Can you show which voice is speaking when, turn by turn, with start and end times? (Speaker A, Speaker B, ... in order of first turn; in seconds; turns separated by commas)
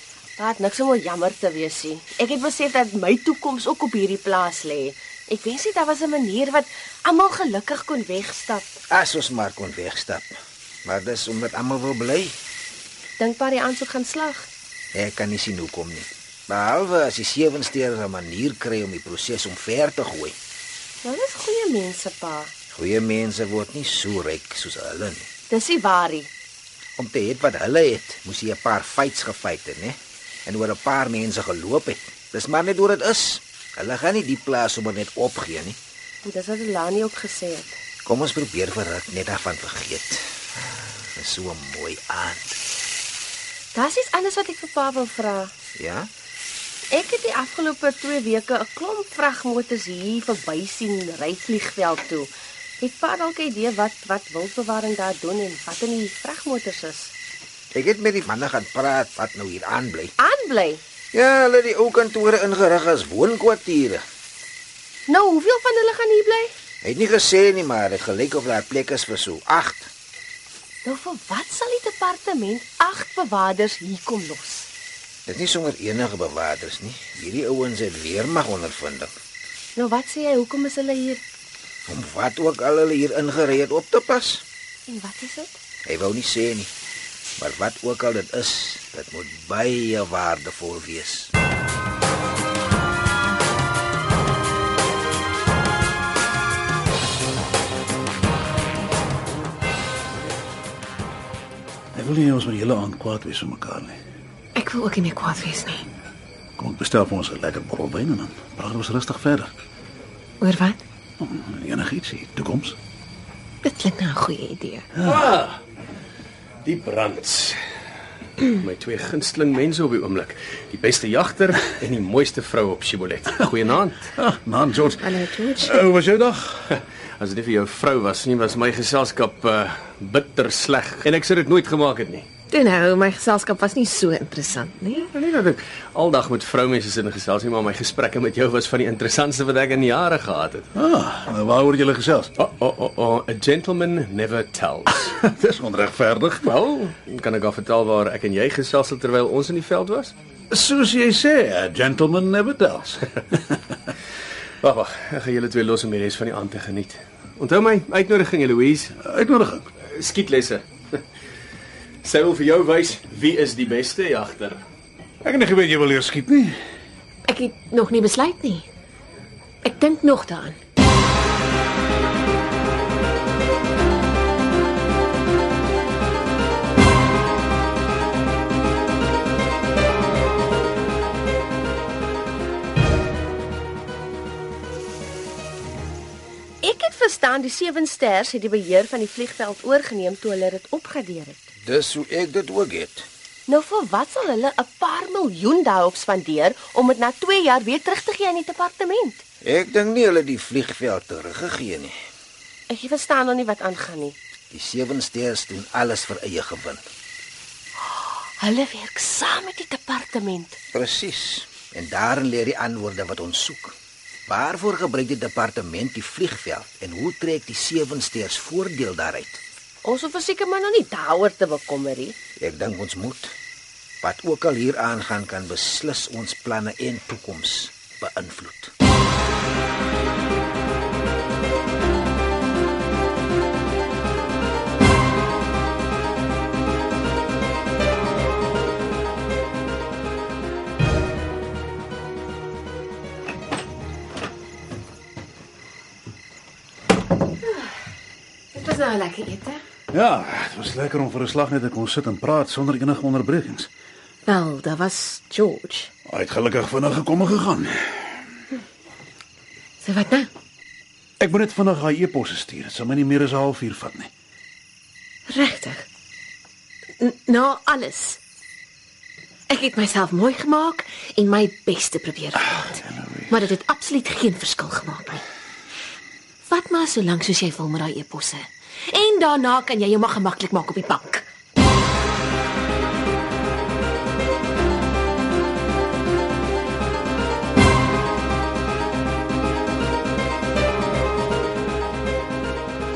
Speaker A: 0.4-8.7, Speaker B: 8.9-12.3, Speaker A: 13.2-14.4, Speaker B: 14.9-20.3, Speaker A: 21.0-22.5, Speaker B: 22.7-25.3, Speaker A: 25.5-26.3, Speaker B: 27.0-35.8, Speaker A: 36.2-37.8, Speaker B: 38.0-40.3, Speaker B: 41.1-42.6, Speaker A: 43.7-45.5, Speaker B: 45.8-46.1, Speaker A: 46.9-52.3, Speaker A: 52.8-57.1, Speaker B: 57.7-60.1, Speaker A: 60.2-60.8, Speaker B: 61.1-64.0, Speaker A: 65.1-66.5, Speaker B: 66.8-69.9, Speaker A: 70.8-74.7, Speaker B: 75.3-79.1, Speaker A: 79.8-81.2, Speaker B: 81.9-84.4, Speaker A: 84.9-85.6, Speaker B: 85.8-86.7, Speaker B: 87.4-91.3, Speaker C: 101.9-104.0, Speaker D: 104.5-105.8, Speaker C: 106.6-109.5, Speaker D: 110.4-110.8, Speaker C: 111.2-112.8, Speaker D: 113.6-114.8, Speaker E: 115.0-115.6, Speaker E: 116.6-117.5, Speaker E: 118.4-124.1, Speaker C: 124.2-126.7, Speaker D: 125.0-125.8, Speaker E: 127.2-132.3, Speaker D: 132.5-135.1, Speaker E: 134.9-140.7, Speaker C: 140.7-142.3, Speaker E: 142.4-145.1, Speaker C: 145.1-146.5, Speaker E: 146.4-150.1, Speaker C: 150.5-153.6, Speaker E: 154.6-158.9, Speaker C: 159.0-159.7, Speaker E: 159.8-160.6, Speaker E: 162.0-164.6, Speaker C: 165.2-166.6, Speaker D: 167.3-168.7, Speaker D: 169.6-170.6, Speaker A: 186.6-191.4, Speaker B: 191.7-193.1, Speaker A: 193.5-199.2, Speaker B: 199.4-201.9, Speaker A: 202.7-204.1, Speaker B: 204.5-206.8, Speaker A: 207.9-210.6, Speaker B: 210.7-219.4, Speaker A: 219.8-222.1, Speaker B: 222.4-223.3, Speaker B: 224.0-228.7, Speaker D: 248.5-249.6, Speaker C: 249.9-253.7, Speaker D: 254.2-255.9, Speaker C: 256.1-258.1, Speaker D: 259.8-260.3, Speaker C: 261.2-264.1, Speaker D: 265.3-265.8, Speaker D: 267.0-268.2, Speaker D: 269.5-275.2, Speaker D: 276.4-281.2